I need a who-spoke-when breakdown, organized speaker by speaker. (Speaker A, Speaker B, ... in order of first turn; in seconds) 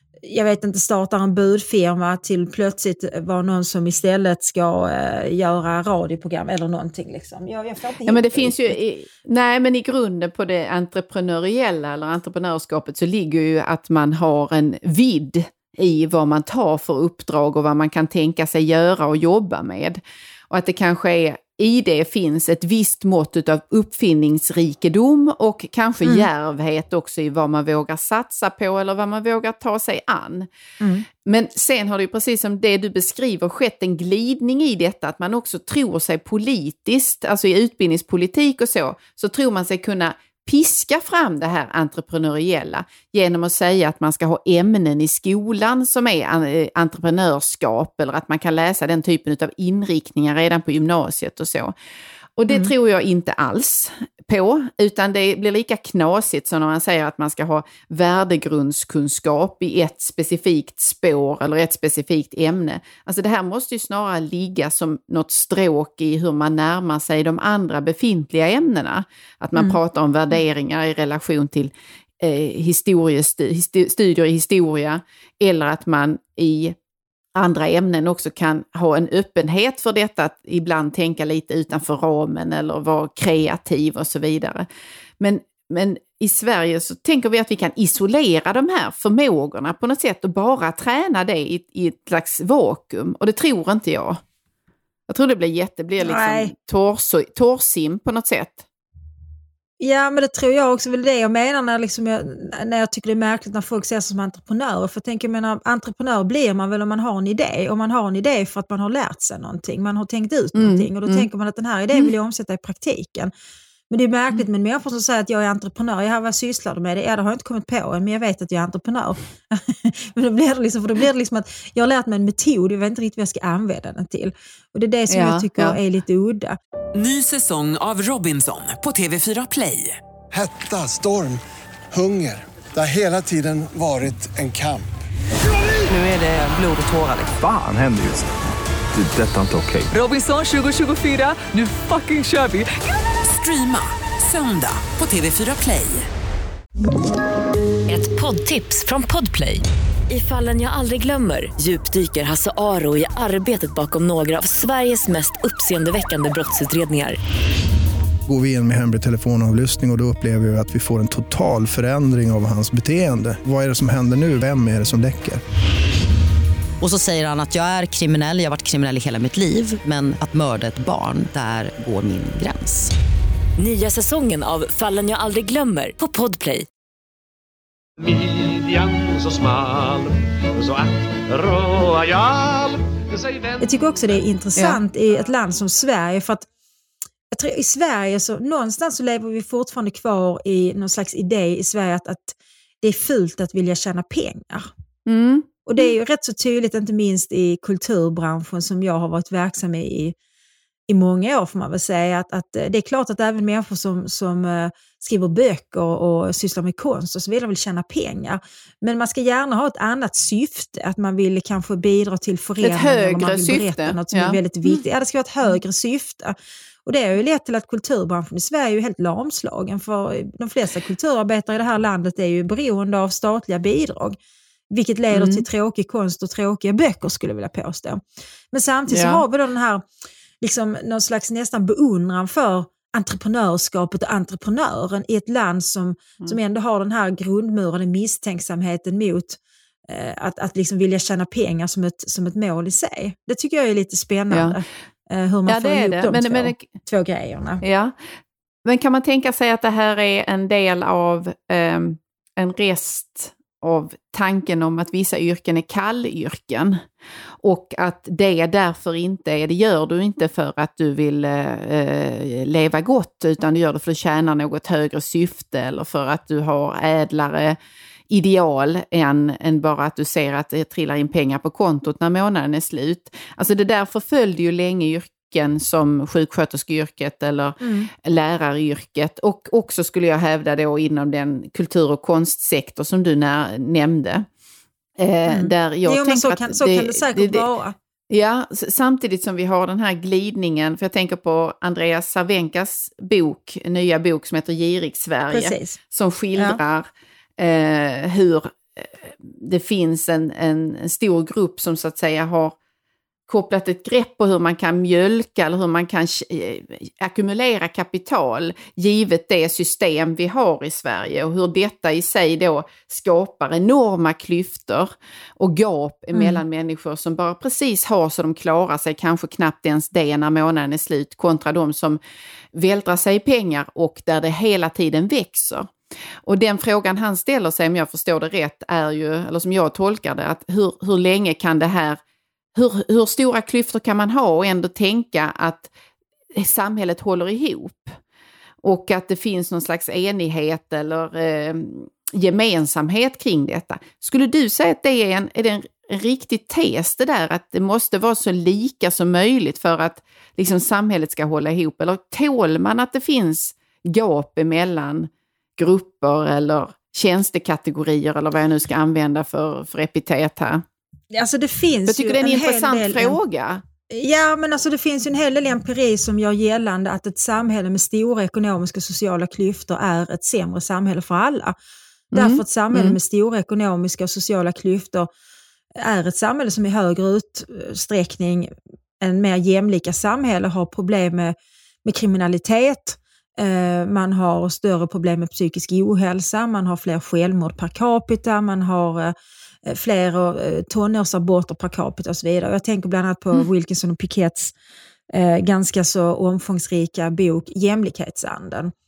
Speaker A: 0.2-8.8, 96.0-96.5, 99.8-113.3, 113.9-126.6, 183.6-186.4, 187.3-194.7, 195.7-200.1, 200.9-216.3, 216.9-224.2, 224.7-228.0, 228.5-229.8, 230.4-247.6, 277.6-277.9, 285.3-287.8, 295.3-295.8, 361.1-363.2, 363.9-371.6, 372.1-375.1, 375.8-389.1, 389.7-394.5, 395.1-398.7
Speaker B: 8.1-30.5, 31.2-51.7, 52.4-76.7, 77.3-84.7, 85.2-94.2, 95.1-98.6, 110.5-111.3, 125.1-125.8, 195.1-195.5, 212.6-214.8, 225.1-225.4, 228.9-229.2, 244.3-244.6, 245.5-246.7, 247.6-247.9, 248.6-256.8, 257.4-267.6, 268.1-284.3, 285.0-287.4, 288.1-296.9, 297.4-302.6, 303.3-322.0, 322.5-325.7, 326.3-332.0, 332.6-335.7, 336.3-337.9, 338.6-360.6, 361.9-363.6, 372.1-373.0
Speaker C: 126.9-130.0, 135.9-137.4, 139.9-142.7, 143.2-146.1
Speaker D: 130.3-131.4, 131.9-134.9
Speaker E: 137.3-138.3, 138.9-139.9
Speaker F: 147.9-157.2, 173.6-176.7
Speaker G: 158.3-165.4
Speaker H: 166.8-172.9
Speaker I: 178.0-184.2